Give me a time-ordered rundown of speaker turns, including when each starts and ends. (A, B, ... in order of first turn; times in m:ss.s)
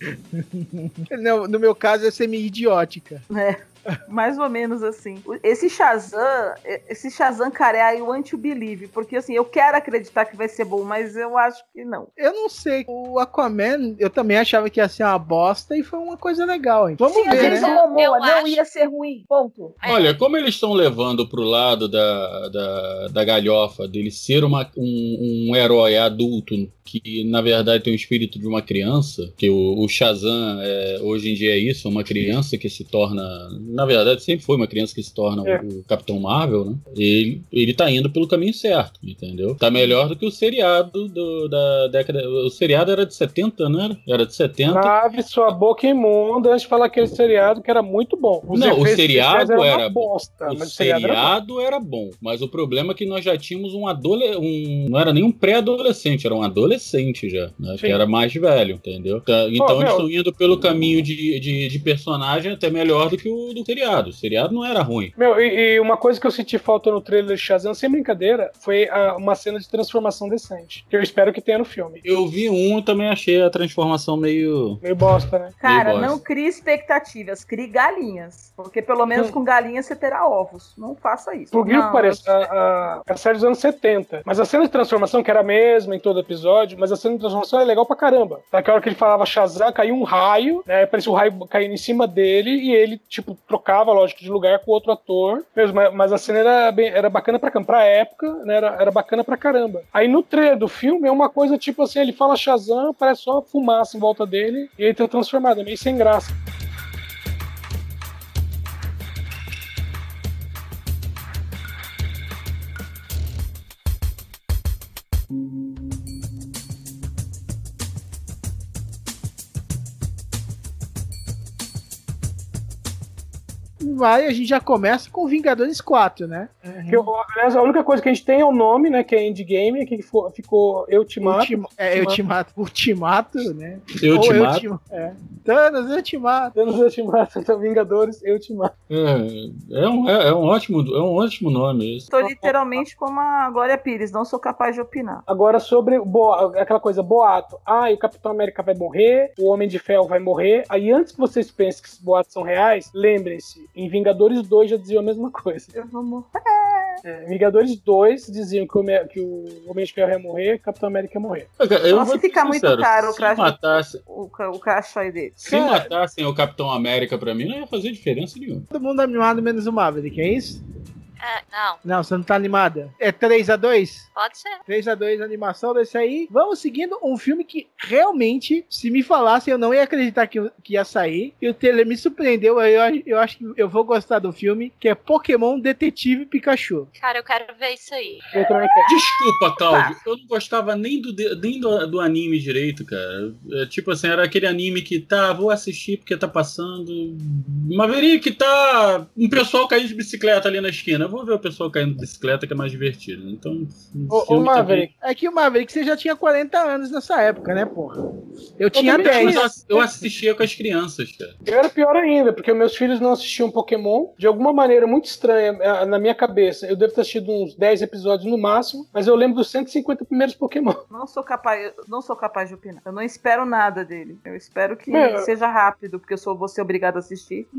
0:00.3-0:03.2 A
0:03.3-0:12.1 B
0:12.2-0:17.7 A
0:17.0-0:19.7 B
0:17.2-0:18.6 C
0:19.8-0:20.2 C
0:19.8-0:44.9 D
0:44.7-0:51.3 E
0:48.5-1:05.1 D
0:59.6-1:00.0 E
1:05.2-1:12.0 E
1:12.0-1:14.8 D
1:14.8-1:15.5 E
1:15.6-1:22.2 B
1:15.6-1:16.2 D
1:21.5-1:46.3 E
2:03.8-2:07.1 A
2:06.9-2:12.2 E
2:11.2-2:16.5 A
2:14.0-2:14.6 D
2:16.5-2:18.7 E
2:18.9-2:22.1 D
2:22.1-2:25.2 B
2:22.2-2:22.8 E
2:25.3-2:35.7 E
2:35.7-2:37.0 B
2:37.0-2:41.5 E
2:41.6-2:44.0 D
2:41.9-2:45.4 B
2:45.4-2:48.7 D
2:45.5-2:45.9 E
2:48.7-2:50.6 A
2:51.2-2:51.8 C
2:51.8-2:54.1 A
2:54.1-2:54.6 C
2:54.6-3:06.9 A
3:07.0-3:08.3 C
3:08.3-3:08.9 E
3:08.9-3:24.9 D
3:09.7-3:09.9 B
3:24.1-3:24.9 E
3:25.0-3:28.0 A
3:28.6-3:29.5 A
3:28.7-3:29.8 E
3:29.0-3:31.3 D
3:31.4-3:40.8 E
3:40.9-3:47.5 B
3:44.9-3:45.3 E